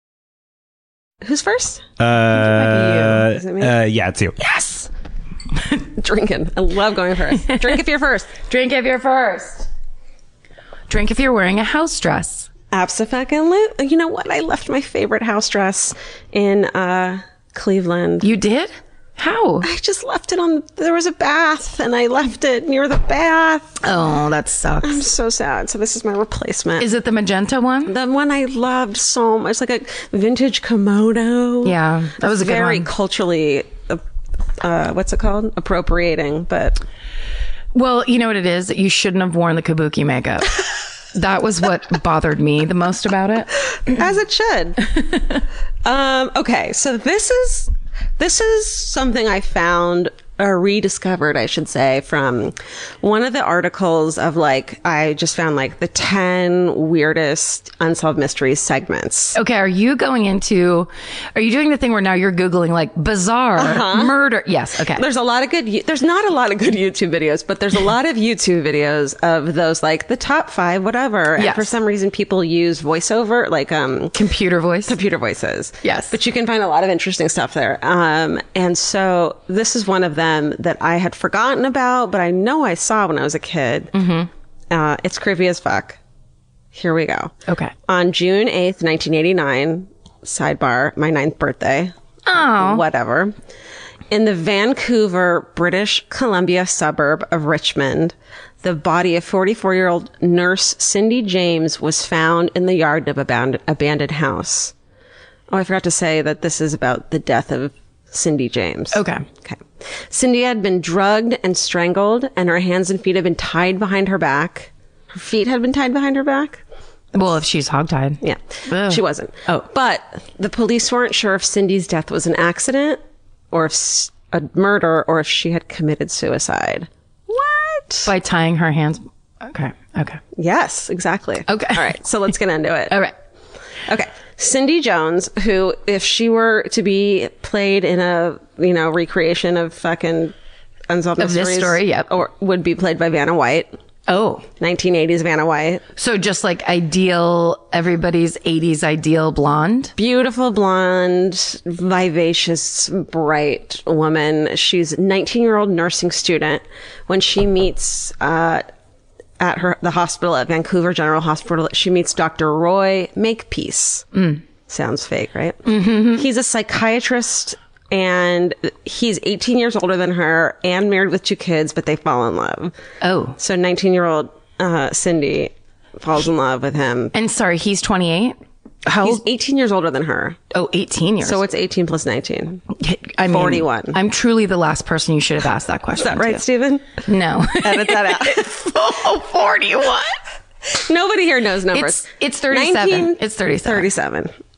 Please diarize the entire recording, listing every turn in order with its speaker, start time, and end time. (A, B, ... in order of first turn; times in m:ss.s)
0:01.2-0:01.8 A
0:02.0-0:04.4 B
0:02.3-0:03.2 C
0:03.3-0:03.7 A
0:04.5-0:04.8 C
0:05.9-0:08.4 A
0:08.4-0:09.7 C
0:10.9-0:12.5 C
0:12.7-0:18.3 A
0:18.2-0:19.7 C
0:19.6-0:23.8 A
0:23.8-0:25.0 C
0:24.8-0:26.9 A
0:26.8-0:27.9 C
0:27.9-0:34.0 A
0:31.6-0:32.9 C
0:34.6-0:36.8 A
0:37.7-0:43.7 C
0:43.9-0:44.8 A
0:45.8-0:59.4 A
0:59.4-1:05.0 C
1:03.6-1:04.1 A
1:05.0-1:14.2 A
1:11.4-1:11.7 C
1:14.1-1:15.0 C
1:14.9-1:23.9 A
1:15.8-1:16.2 C
1:23.9-1:24.3 C
1:24.7-1:26.0 A
1:26.7-1:27.4 A
1:27.5-1:27.7 C
1:27.9-1:33.3 A
1:32.3-1:32.8 C
1:34.1-1:44.7 A
1:45.5-1:56.6 A
1:48.9-1:49.3 C
1:57.1-1:59.0 C
1:58.2-2:03.0 A
2:03.5-2:08.1 A
2:08.0-2:10.2 C
2:10.4-2:13.0 A
2:11.5-2:11.9 C
2:13.9-2:20.4 A
2:20.9-2:23.7 A
2:21.2-2:22.1 C
2:24.1-2:24.5 C
2:24.6-2:25.8 A
2:26.0-2:29.9 C
2:30.0-2:38.7 A
2:39.4-2:44.1 A
2:44.2-2:44.4 C
2:44.7-2:52.7 A
2:45.7-2:46.2 C
2:53.0-2:53.4 C
2:53.4-2:57.2 A
2:57.1-2:59.2 C
2:59.0-3:00.4 A
3:00.5-3:01.4 C
3:01.2-3:02.6 A
3:02.8-3:06.4 C
3:03.3-3:04.0 A
3:06.0-3:07.0 A
3:07.1-3:10.2 C
3:07.6-3:08.5 A
3:10.7-3:14.3 A
3:11.7-3:13.9 C